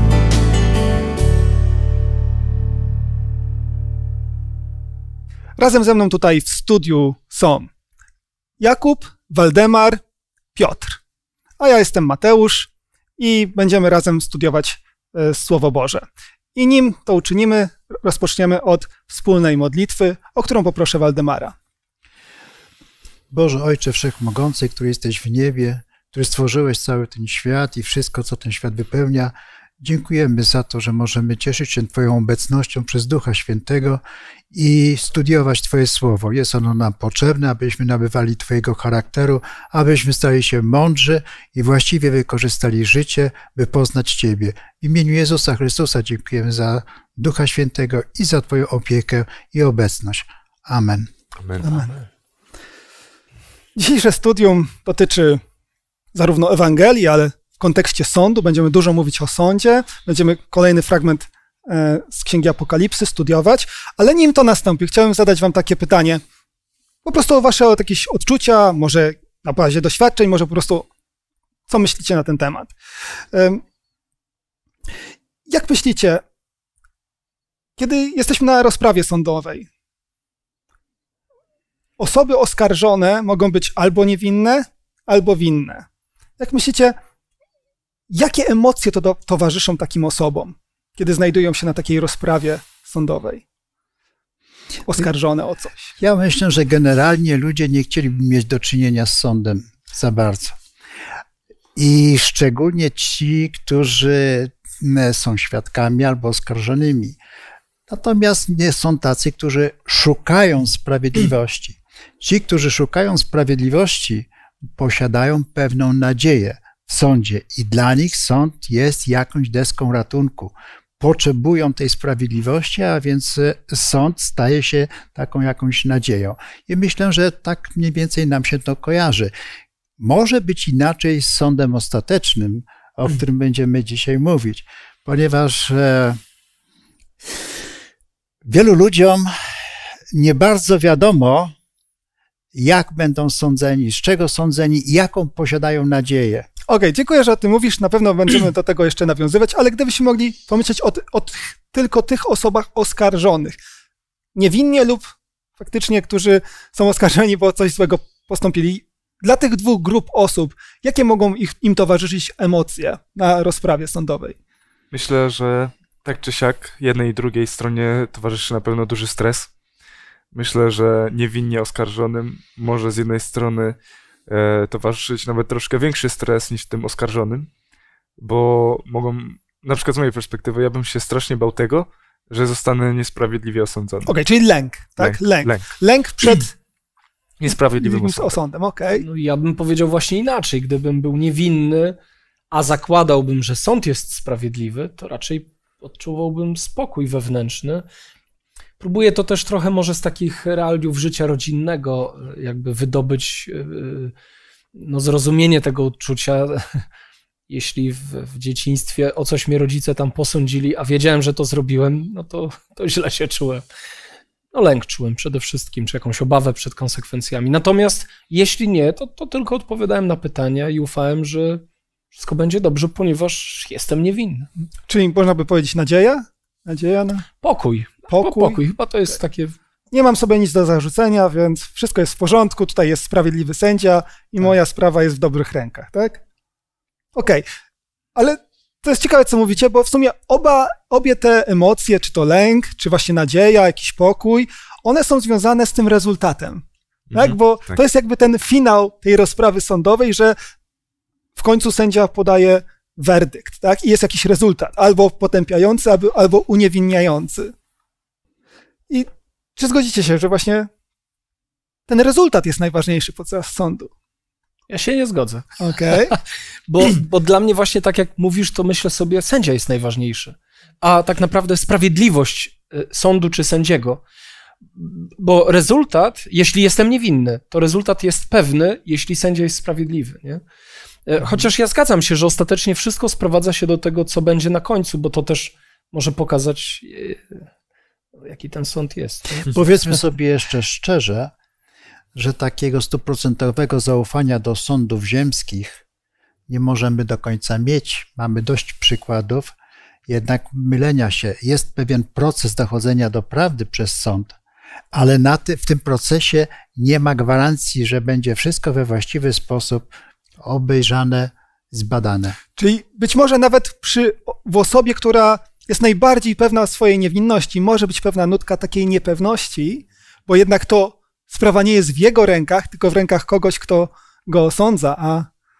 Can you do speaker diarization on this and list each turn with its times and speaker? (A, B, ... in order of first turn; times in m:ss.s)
0:05.6-0:07.7 A
0:08.6-0:10.0 A
0:10.5-0:11.0 A
0:11.6-0:21.5 A
0:23.3-0:51.1 B
0:51.4-0:51.9 C
0:51.6-0:51.9 A
0:53.7-0:55.4 A
0:56.1-1:06.2 A
1:07.0-1:10.9 A
1:11.7-1:12.7 A
1:13.3-1:13.6 A
1:15.5-1:16.2 A
1:17.8-1:19.7 A
1:22.0-1:25.8 A
1:26.4-1:27.0 A
1:28.1-1:33.4 A
1:34.9-1:35.9 A
1:36.0-1:40.6 B
1:41.7-1:47.2 B
1:47.9-2:09.3 B
2:10.0-2:16.2 B
2:18.4-2:19.3 B
2:20.1-2:21.5 B
2:22.5-2:26.5 B
2:26.7-2:33.6 A
2:34.3-2:44.4 A
2:44.9-2:49.5 C
2:50.3-2:53.8 C
2:54.3-2:57.5 C
2:58.2-3:04.1 C
3:04.0-3:06.5 A
3:05.0-3:05.7 C
3:07.4-3:08.4 C
3:07.8-3:09.0 A
3:08.9-3:12.0 D
3:12.5-3:17.8 D
3:18.8-3:24.1 D
3:24.7-3:26.8 D
3:27.5-3:33.6 D
3:34.5-3:44.5 D
3:44.9-3:47.2 A
3:47.4-3:49.6 D
3:48.1-3:48.6 A
3:49.9-3:56.2 A
3:57.1-3:57.4 A
3:58.1-4:10.4 A
4:07.1-4:07.8 C
4:11.4-4:17.5 A
4:18.9-4:20.7 A
4:21.9-4:23.9 A
4:24.7-4:25.5 D
4:25.6-4:26.2 A
4:26.7-4:34.0 D
4:34.8-4:40.4 D
4:41.0-4:47.4 D
4:48.2-4:49.6 D
4:49.4-4:51.3 B
4:52.1-4:55.8 B
4:56.5-4:59.5 B
5:00.1-5:04.4 B
5:04.9-5:12.4 B
5:12.6-5:25.3 A